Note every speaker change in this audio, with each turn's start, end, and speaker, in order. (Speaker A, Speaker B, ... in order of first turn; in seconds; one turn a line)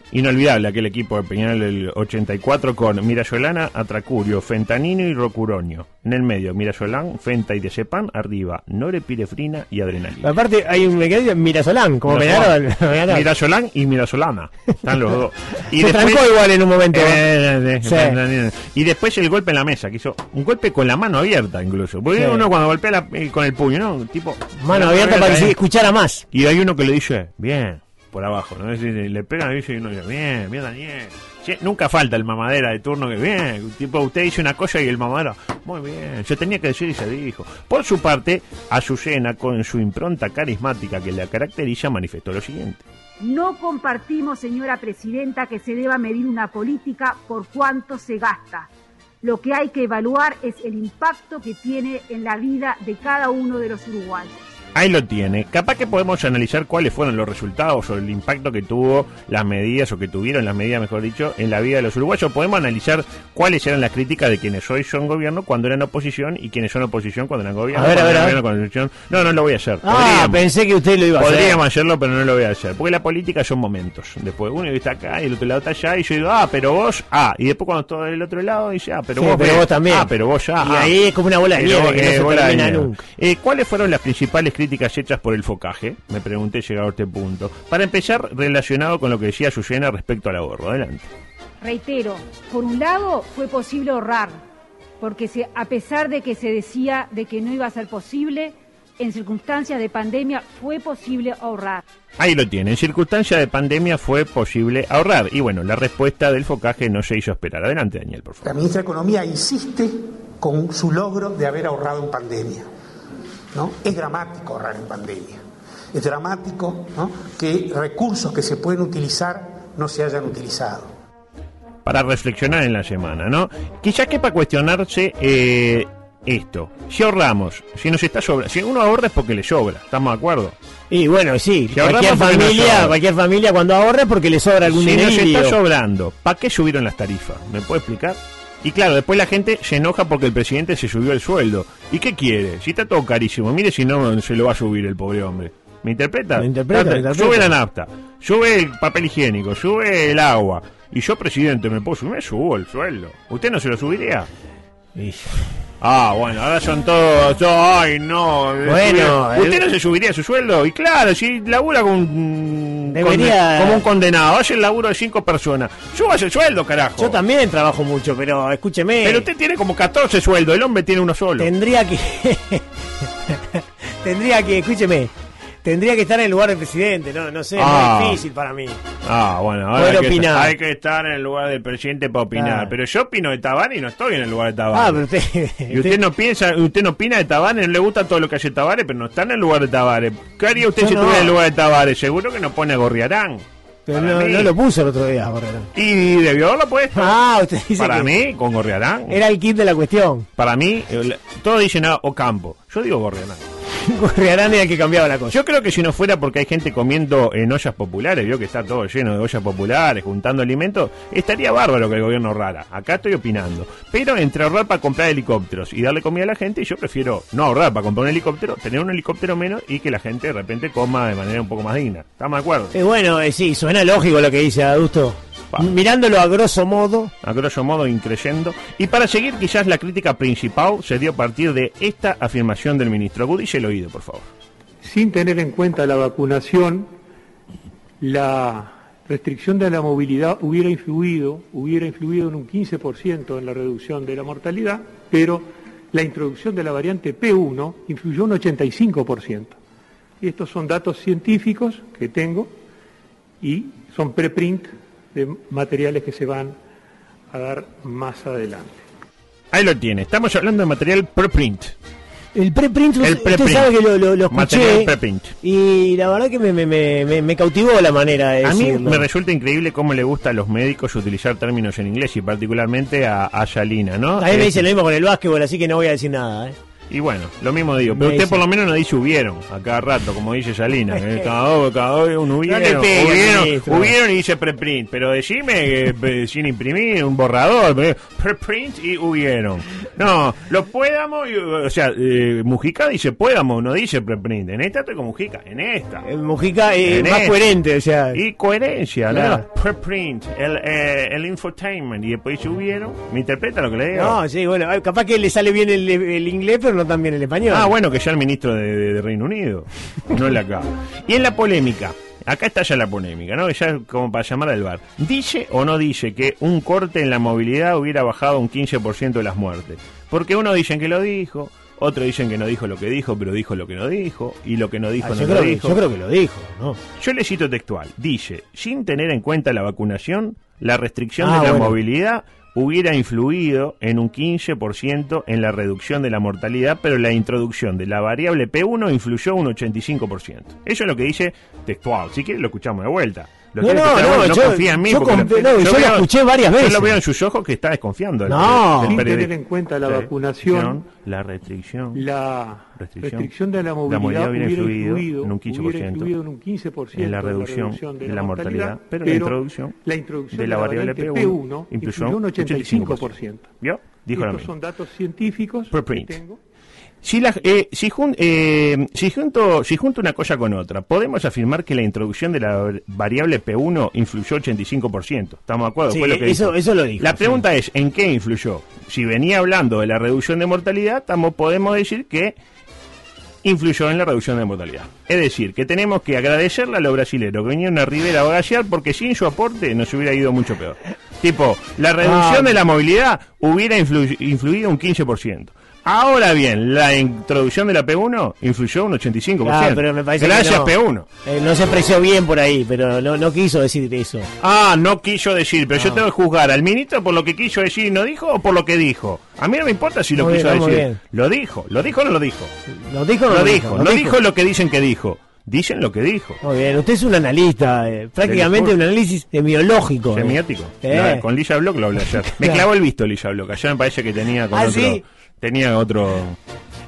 Speaker A: 0.1-10.3
Speaker B: 10.2-13.2
Speaker A: 12.1-16.3
Speaker B: 15.8-17.2
Speaker A: 16.9-25.6
Speaker B: 17.8-18.2
Speaker B: 22.2-22.4
Speaker B: 24.6-26.2
Speaker A: 26.3-42.8
Speaker C: 43.2-48.7
Speaker C: 49.2-54.4
Speaker A: 54.7-70.5
Speaker B: 67.7-68.4
Speaker B: 69.8-71.6
Speaker A: 71.2-80.9
Speaker B: 79.2-83.0
Speaker A: 81.5-91.1
Speaker C: 91.6-94.4
Speaker C: 95.0-101.8
Speaker A: 102.2-108.5
Speaker D: 108.4-112.7
Speaker D: 113.5-115.4
Speaker D: 115.9-120.9
Speaker A: 121.8-130.6
Speaker B: 130.9-135.6
Speaker A: 131.7-133.0
Speaker A: 134.6-154.3
Speaker B: 146.4-147.5
Speaker B: 154.9-155.4
Speaker A: 155.8-167.2
Speaker B: 158.6-159.6
Speaker B: 162.9-163.8
Speaker B: 167.0-169.3
Speaker A: 169.0-171.5
Speaker B: 171.4-172.7
Speaker B: 173.3-175.1
Speaker B: 175.6-178.8
Speaker A: 177.6-178.2
Speaker A: 179.0-185.0
Speaker B: 179.8-180.5
Speaker B: 182.3-182.7
Speaker B: 184.7-186.0
Speaker A: 185.7-194.5
Speaker B: 190.7-191.4
Speaker B: 193.9-195.7
Speaker A: 195.7-197.2
Speaker B: 196.9-198.1
Speaker A: 197.8-199.2
Speaker B: 199.1-200.3
Speaker A: 200.4-203.4
Speaker B: 203.8-205.4
Speaker A: 205.3-222.7
Speaker B: 222.7-227.1
Speaker A: 227.2-234.3
Speaker E: 234.8-236.9
Speaker E: 238.0-249.6
Speaker E: 250.2-252.5
Speaker E: 253.4-256.6
Speaker E: 257.3-258.8
Speaker A: 259.5-261.7
Speaker B: 262.3-269.0
Speaker A: 263.0-263.7
Speaker A: 264.3-265.3
Speaker A: 268.4-274.6
Speaker B: 274.2-276.6
Speaker A: 276.9-296.0
Speaker B: 277.9-278.4
Speaker B: 282.4-283.9
Speaker B: 296.0-298.2
Speaker A: 296.8-297.4
Speaker A: 298.1-304.2
Speaker B: 299.1-299.4
Speaker B: 303.9-307.7
Speaker A: 307.5-325.8
Speaker B: 325.0-326.8
Speaker A: 327.0-349.3
Speaker B: 331.2-331.8
Speaker B: 343.6-346.9
Speaker B: 348.3-349.0
Speaker E: 348.8-350.8
Speaker A: 349.8-352.0
Speaker E: 351.9-363.5
Speaker A: 352.8-353.3
Speaker A: 353.8-356.1
Speaker A: 356.9-359.8
Speaker A: 360.3-364.5
Speaker E: 364.1-366.4
Speaker A: 365.7-366.2
Speaker A: 367.0-382.4
Speaker B: 375.9-377.4
Speaker A: 383.4-401.1
Speaker B: 392.0-392.5
Speaker B: 399.4-400.7
Speaker B: 401.2-404.3
Speaker A: 404.4-412.5
Speaker B: 410.1-411.0
Speaker B: 412.8-414.1
Speaker A: 413.3-416.4
Speaker B: 416.4-421.2
Speaker A: 418.2-418.8
Speaker A: 420.1-426.4
Speaker B: 422.2-422.6
Speaker B: 424.5-425.0